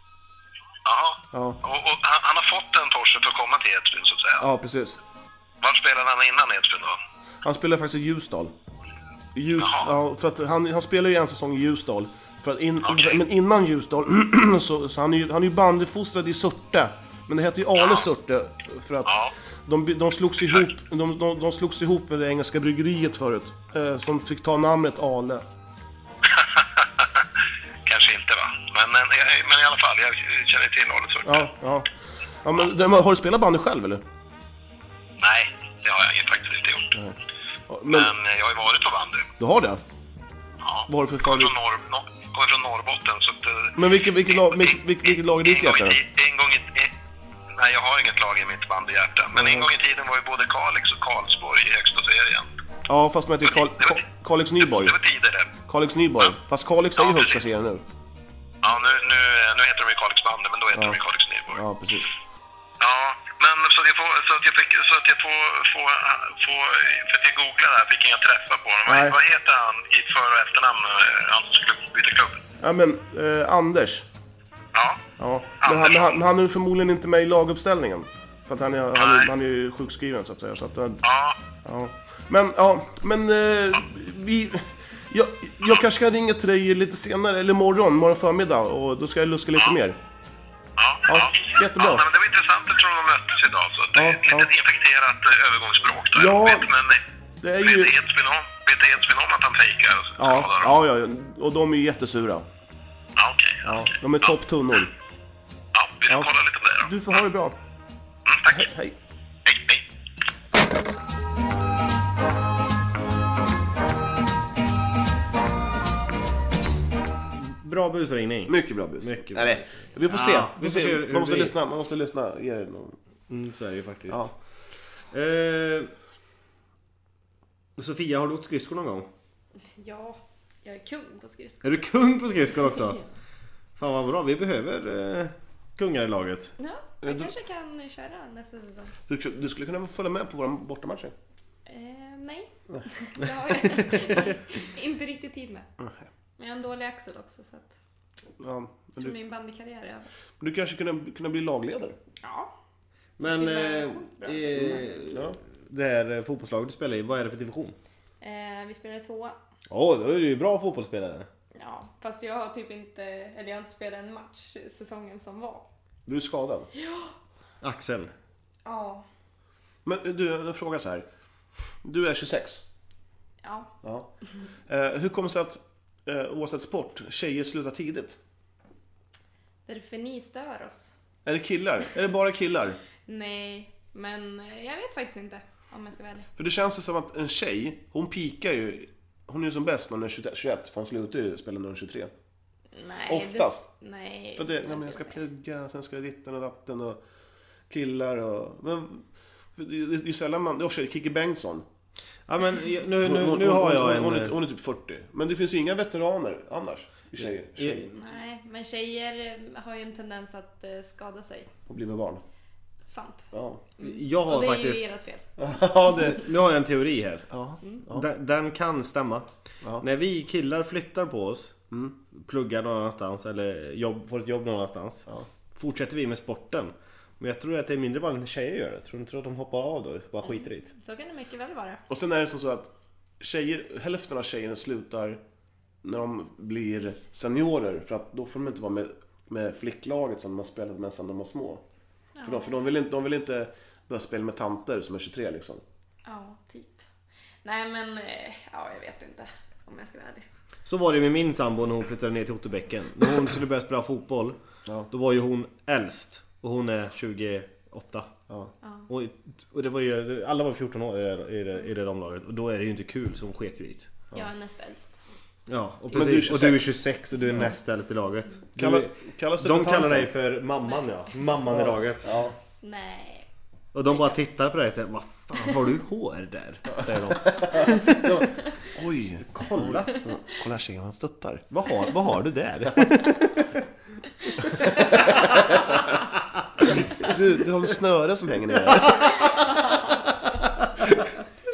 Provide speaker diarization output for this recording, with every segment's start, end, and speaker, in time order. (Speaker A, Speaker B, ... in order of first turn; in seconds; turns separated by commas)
Speaker A: 0.8-4.5, Speaker B: 1.3-1.6, Speaker B: 4.4-5.0, Speaker A: 5.6-7.0, Speaker B: 7.4-8.5, Speaker B: 9.3-19.1, Speaker A: 9.6-9.9, Speaker A: 12.8-13.2, Speaker A: 17.8-18.1, Speaker A: 19.1-19.3, Speaker B: 19.7-25.4, Speaker A: 20.4-20.7, Speaker A: 26.2-27.3, Speaker A: 27.9-31.5, Speaker B: 31.2-31.9, Speaker B: 32.4-34.0, Speaker A: 35.2-37.0, Speaker B: 37.7-38.1, Speaker A: 37.9-39.3, Speaker B: 39.4-39.8, Speaker A: 40.6-46.9, Speaker B: 40.9-41.5, Speaker B: 43.8-46.0, Speaker A: 47.5-52.5, Speaker B: 49.3-49.7, Speaker B: 52.9-55.0, Speaker A: 53.4-54.0, Speaker A: 54.6-55.5, Speaker B: 55.7-57.8, Speaker A: 57.0-57.4, Speaker A: 58.6-61.6, Speaker B: 60.7-62.1, Speaker A: 62.8-72.4, Speaker B: 68.9-69.2, Speaker B: 72.6-74.1, Speaker A: 74.8-75.0, Speaker B: 75.2-81.0, Speaker A: 75.6-76.2, Speaker A: 79.0-79.3, Speaker A: 81.0-81.4, Speaker B: 81.6-90.0, Speaker A: 90.8-97.0, Speaker B: 91.1-92.0, Speaker B: 94.0-94.5, Speaker B: 96.2-96.7, Speaker B: 97.4-97.9, Speaker A: 97.6-100.8, Speaker B: 100.2-102.5, Speaker A: 103.2-104.3, Speaker B: 103.6-104.9, Speaker A: 105.7-106.9, Speaker B: 106.8-107.6, Speaker A: 108.3-108.7, Speaker B: 108.5-109.0, Speaker A: 109.5-109.8, Speaker C: 117.3-121.5, Speaker B: 118.5-123.0, Speaker C: 123.3-124.3, Speaker C: 125.1-125.9, Speaker C: 127.8-129.1, Speaker D: 129.8-131.7, Speaker C: 131.6-133.0, Speaker C: 133.8-136.5, Speaker D: 136.6-138.9, Speaker B: 137.0-137.3, Speaker B: 139.1-141.1, Speaker D: 141.7-145.7, Speaker B: 145.8-146.1, Speaker D: 146.4-147.8, Speaker B: 148.4-149.2, Speaker D: 149.0-150.1, Speaker B: 150.4-152.0, Speaker D: 152.2-152.5, Speaker C: 153.2-157.8, Speaker D: 153.2-154.9, Speaker B: 154.5-155.4, Speaker D: 158.2-159.4, Speaker C: 159.7-161.3, Speaker D: 161.5-165.7, Speaker B: 166.1-166.7, Speaker D: 166.8-167.1, Speaker C: 167.6-168.1, Speaker D: 168.7-169.1, Speaker B: 169.8-171.1, Speaker B: 171.8-172.6, Speaker D: 173.4-173.7, Speaker B: 173.8-174.1, Speaker B: 174.7-178.2, Speaker D: 179.7-180.9, Speaker B: 181.2-182.8, Speaker D: 183.1-186.3, Speaker B: 186.4-192.1, Speaker D: 192.8-195.2, Speaker B: 193.1-193.7, Speaker B: 194.4-197.0, Speaker B: 197.7-199.1, Speaker B: 199.6-201.7, Speaker C: 202.3-204.3, Speaker B: 203.0-207.9, Speaker C: 207.2-207.9, Speaker D: 207.9-211.5, Speaker B: 211.7-212.2, Speaker D: 212.8-215.2, Speaker B: 213.3-213.6, Speaker C: 213.8-214.9, Speaker B: 215.4-216.3, Speaker C: 216.1-217.3, Speaker B: 217.3-218.1, Speaker C: 217.9-219.3, Speaker C: 219.8-221.6, Speaker B: 221.7-222.0, Speaker C: 222.2-230.7, Speaker D: 230.7-231.8, Speaker B: 231.9-235.2, Speaker B: 235.8-241.6, Speaker D: 242.2-242.7, Speaker B: 242.2-245.6, Speaker D: 246.1-246.8, Speaker D: 247.4-250.2, Speaker C: 250.7-254.4, Speaker C: 254.9-258.1, Speaker D: 258.6-258.9, Speaker C: 258.9-263.9, Speaker D: 264.1-265.0, Speaker C: 265.5-272.1, Speaker B: 265.9-266.8, Speaker B: 268.6-270.1, Speaker B: 271.5-272.4, Speaker D: 272.6-273.3, Speaker C: 273.7-278.2, Speaker B: 276.7-281.5, Speaker C: 279.3-279.9, Speaker C: 281.5-283.6, Speaker B: 282.7-283.0, Speaker B: 284.4-285.8, Speaker B: 286.8-289.3